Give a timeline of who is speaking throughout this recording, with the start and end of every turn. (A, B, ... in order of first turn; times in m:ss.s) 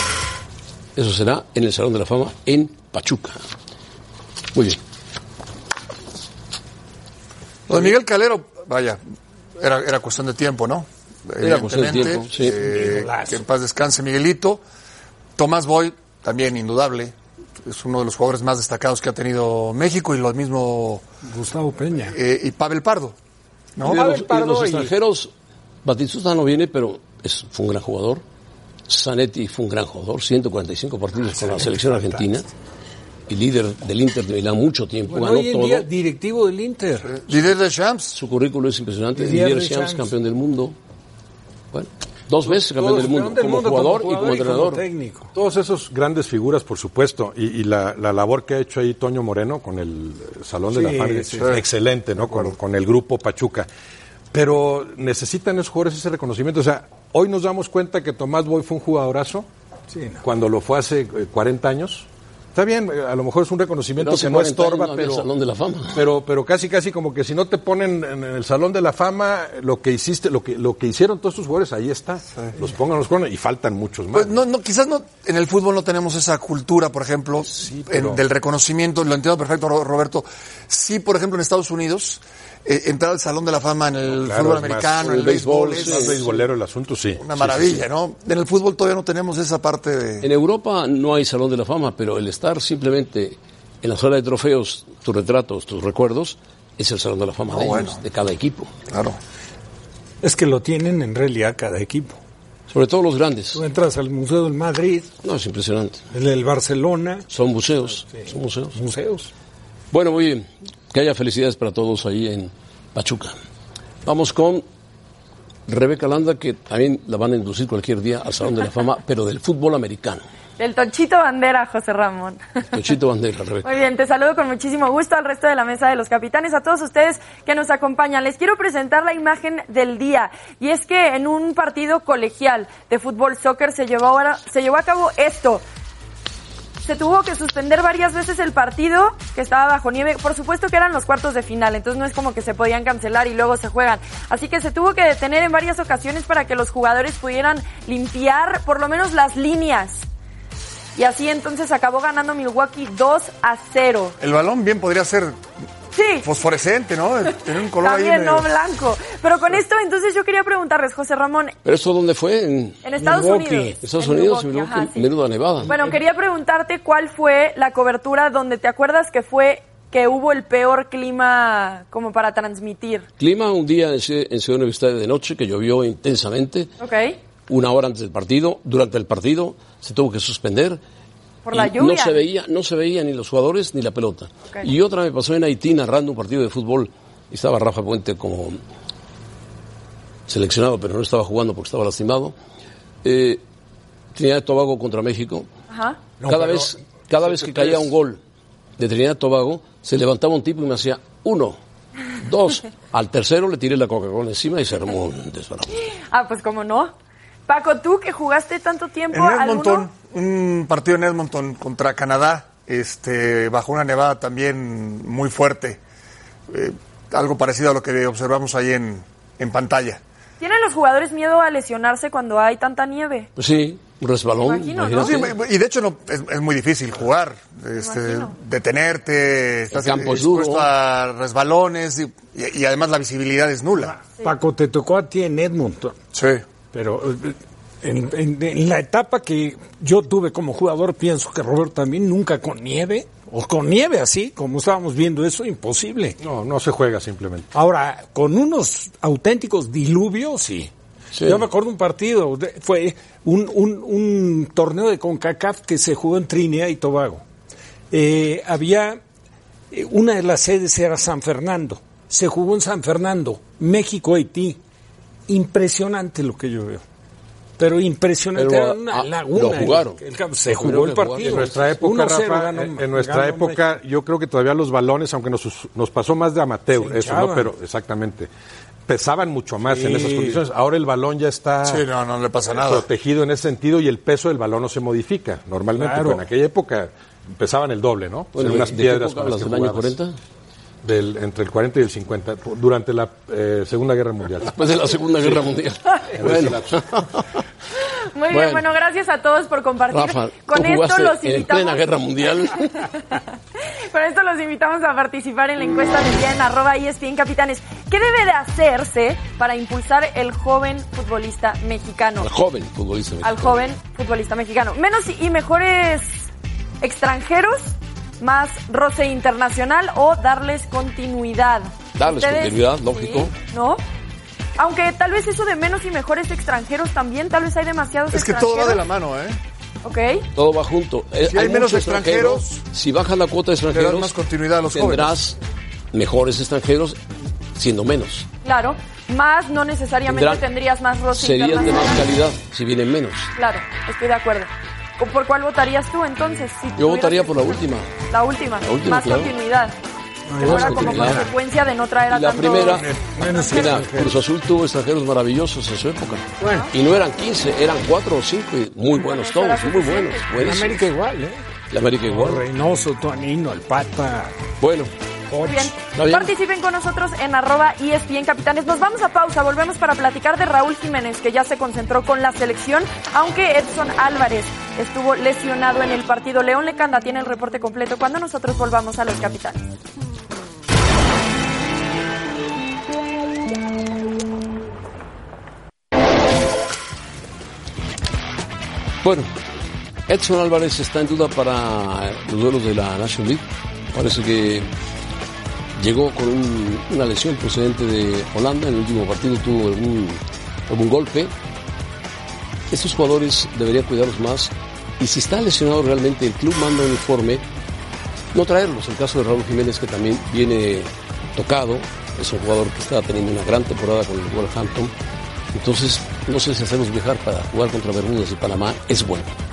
0:01.0-0:03.4 A
0:07.7-0:09.0 B
0:09.6-0:14.6 B
0:11.4-0:12.6 A
0:12.5-0:13.4 C
0:15.4-0:21.0 B
0:21.2-0:22.2 C
0:22.1-0:23.2 B
0:23.8-0:24.1 B
0:23.8-0:24.9 C
0:23.9-0:25.3 A
0:25.8-0:28.2 A
0:28.9-0:32.5 A
0:31.3-0:32.3 C
0:33.3-0:35.9 A
0:35.1-0:37.1 C
0:37.1-0:38.2 B
0:38.2-0:40.8 A
0:39.2-0:40.1 C
0:41.7-0:44.8 A
0:42.7-0:45.3 C
0:45.4-0:53.7 D
0:50.7-0:51.5 C
0:52.2-0:52.5 B
0:54.3-0:59.5 D
0:59.9-1:00.2 C
1:00.2-1:05.3 D
1:04.0-1:06.0 A
1:05.9-1:14.4 D
1:14.1-1:26.3 B
1:17.5-1:18.2 D
1:24.1-1:27.8 D
1:25.0-1:26.2 A
1:27.2-1:30.3 B
1:30.2-1:38.7 A
1:37.5-1:38.0 B
1:38.9-1:39.2 B
1:40.2-1:42.2 C
1:42.7-1:43.6 A
1:43.5-1:45.1 C
1:45.2-1:46.0 A
1:46.1-1:47.2 C
1:47.3-1:48.8 A
1:48.1-1:49.3 C
1:49.9-1:53.4 A
1:54.0-1:54.6 A
1:55.7-2:00.2 A
2:00.6-2:02.4 E
2:02.7-2:03.7 A
2:03.6-2:15.6 E
2:16.8-2:30.0 E
2:31.0-2:34.2 E
2:34.2-2:35.4 B
2:35.9-2:36.3 E
2:36.2-2:38.5 B
2:37.8-2:41.6 E
2:41.6-2:42.8 A
2:42.8-2:45.1 E
2:43.0-2:43.8 C
2:43.8-2:45.7 A
2:45.7-2:46.0 C
2:45.7-2:53.1 E
2:53.2-2:56.7 A
2:56.8-2:57.2 E
2:57.5-3:00.8 A
3:01.5-3:02.2 E
3:01.5-3:08.6 A
3:10.3-3:12.3 A
3:13.0-3:13.4 A
3:14.2-3:15.5 A
3:15.7-3:16.0 E
3:16.2-3:16.7 C
3:16.3-3:18.2 A
3:17.3-3:17.8 D
3:18.8-3:21.6 A
3:22.2-3:25.7 A
3:25.9-3:26.9 E
3:27.5-3:29.9 E
3:29.1-3:35.8 B
3:36.5-3:40.0 B
3:40.4-3:43.3 E
3:43.4-3:45.4 A
3:44.4-3:45.3 E
3:45.0-3:54.0 B
3:47.8-3:48.3 E
3:49.7-3:50.7 A
3:53.9-3:56.0 C
3:56.1-3:56.4 B
3:56.7-4:06.2 C
4:06.2-4:07.5 D
4:07.5-4:10.7 C
4:11.1-4:11.4 A
4:11.2-4:17.2 C
4:17.9-4:19.0 C
4:19.7-4:24.6 C
4:25.3-4:26.8 C
4:27.6-4:33.6 C
4:28.4-4:31.6 A
4:31.2-4:38.3 D
4:36.8-4:37.5 C
4:38.9-4:41.8 D
4:39.7-4:40.4 C
4:41.6-4:42.8 B
4:42.6-4:50.0 D
4:45.8-4:46.2 C
4:48.3-4:50.1 A
4:50.8-4:54.6 D
4:54.5-4:57.4 A
4:56.1-4:57.1 D
4:58.1-5:01.8 E
4:58.3-4:58.6 A
4:59.9-5:02.8 A
5:02.8-5:12.3 E
5:12.2-5:13.6 A
5:13.2-5:16.3 E
5:16.8-5:23.8 E
5:22.0-5:23.3 A
5:24.6-5:28.8 E
5:28.1-5:29.4 B
5:29.8-5:30.2 E
5:30.4-5:34.2 A
5:31.3-5:32.6 B
5:33.7-5:35.2 B
5:34.7-5:35.4 A
5:35.9-5:37.0 A
5:37.6-5:38.3 A
5:38.4-5:42.1 E
5:40.1-5:40.4 A
5:41.1-5:43.3 A
5:43.4-5:49.8 E
5:46.8-5:47.9 A
5:48.6-5:49.3 A
5:50.3-5:51.3 C
5:50.4-5:53.8 E
5:50.4-5:51.3 A
5:52.1-6:00.8 A
5:53.1-5:54.2 C
5:56.4-5:56.7 C
5:56.4-5:56.7 E
5:58.9-6:00.2 E
6:00.4-6:01.4 C
6:01.7-6:02.4 A
6:02.1-6:04.4 C
6:04.6-6:04.9 A
6:05.3-6:05.7 C
6:05.5-6:19.7 E
6:05.9-6:06.3 A
6:29.0-6:29.3 A
6:30.1-6:34.7 A
6:35.8-6:41.3 A
6:42.7-6:47.4 A
6:48.3-6:54.9 A
6:55.5-6:59.3 A